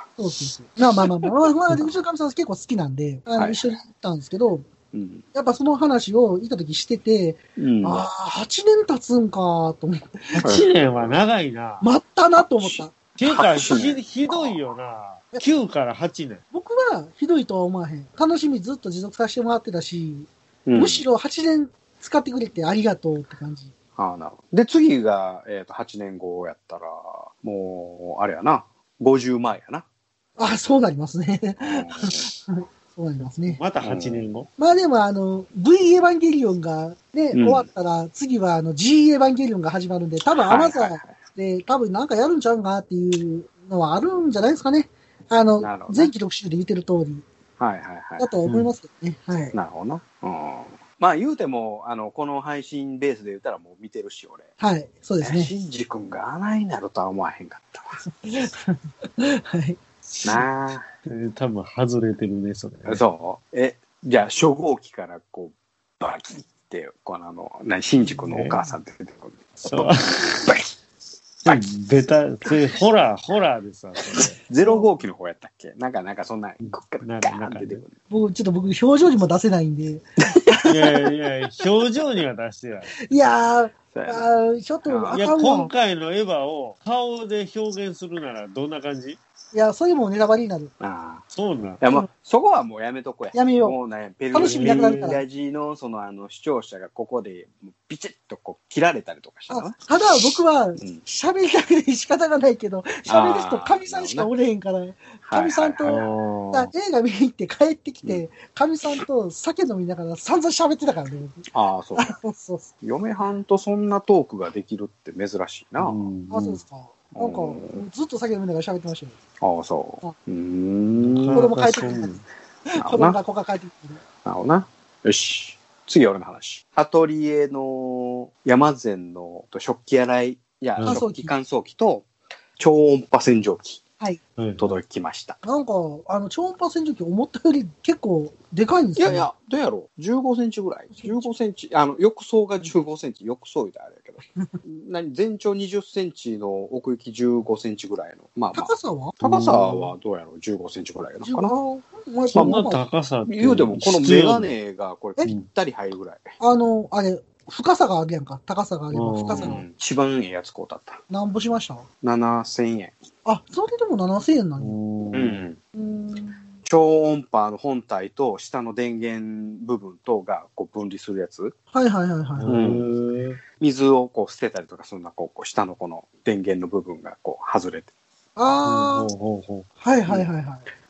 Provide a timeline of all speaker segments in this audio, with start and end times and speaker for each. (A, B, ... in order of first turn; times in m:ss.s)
0:00.2-0:04.7 A
0:03.4-0:03.6 B
0:04.9-0:05.2 B
0:05.3-0:10.5 A
0:07.6-0:08.0 B
0:10.4-0:11.2 B
0:10.4-0:11.9 C
0:11.8-0:12.9 A
0:12.4-0:14.6 B
0:13.2-0:16.4 C
0:16.5-0:23.7 A
0:20.6-0:21.0 B
0:24.0-0:29.8 B
0:30.4-0:33.6 A
0:31.6-0:32.3 B
0:33.5-0:34.5 C
0:33.8-0:34.2 B
0:34.6-0:47.2 A
0:37.3-0:37.7 B
0:40.4-0:41.2 B
0:45.6-0:46.1 B
0:47.6-0:48.3 B
0:48.2-0:49.6 A
0:48.4-0:48.7 C
0:49.5-0:54.5 B
0:54.6-0:55.5 A
0:55.2-0:58.0 B
0:58.0-0:59.8 A
1:00.2-1:00.9 B
1:01.1-1:03.0 C
1:02.8-1:10.6 B
1:08.2-1:08.6 C
1:09.7-1:10.5 C
1:11.4-1:14.4 C
1:14.1-1:18.0 B
1:16.6-1:17.8 C
1:18.1-1:21.0 A
1:20.6-1:22.9 C
1:23.1-1:25.7 A
1:23.9-1:24.3 B
1:24.8-1:25.4 B
1:25.1-1:29.2 C
1:29.5-1:30.7 A
1:30.8-1:31.2 B
1:31.3-1:31.8 C
1:31.8-1:39.8 B
1:33.3-1:33.8 A
1:34.3-1:35.2 A
1:34.4-1:35.1 C
1:39.5-1:52.7 A
1:43.1-1:44.3 B
1:45.2-1:46.1 B
1:45.9-1:46.7 C
1:51.5-1:52.1 B
1:52.8-1:56.0 B
1:55.8-1:56.6 C
1:56.3-1:59.2 A
1:57.1-1:57.8 B
1:59.4-2:01.6 B
2:01.0-2:02.2 C
2:01.4-2:02.1 A
2:02.7-2:04.0 A
2:02.8-2:03.2 B
2:04.2-2:13.8 B
2:10.8-2:11.3 A
2:14.4-2:14.8 C
2:14.6-2:15.4 B
2:15.4-2:19.2 A
2:19.0-2:31.5 B
2:20.9-2:21.3 A
2:28.5-2:29.1 A
2:29.2-2:29.9 C
2:31.2-2:32.8 A
2:32.3-2:32.6 B
2:32.3-2:34.5 C
2:33.2-2:36.3 B
2:36.4-2:39.6 A
2:38.9-2:39.6 C
2:39.3-2:41.0 B
2:41.1-2:41.8 A
2:42.0-2:43.0 B
2:43.2-2:44.8 A
2:44.6-2:45.4 C
2:45.1-2:45.6 B
2:45.7-2:46.6 A
2:46.6-2:51.5 B
2:51.7-2:52.6 A
2:52.4-2:53.4 C
2:52.5-2:52.8 B
2:53.6-2:57.9 B
2:58.4-2:59.1 A
2:58.7-2:59.7 C
2:59.8-3:00.6 A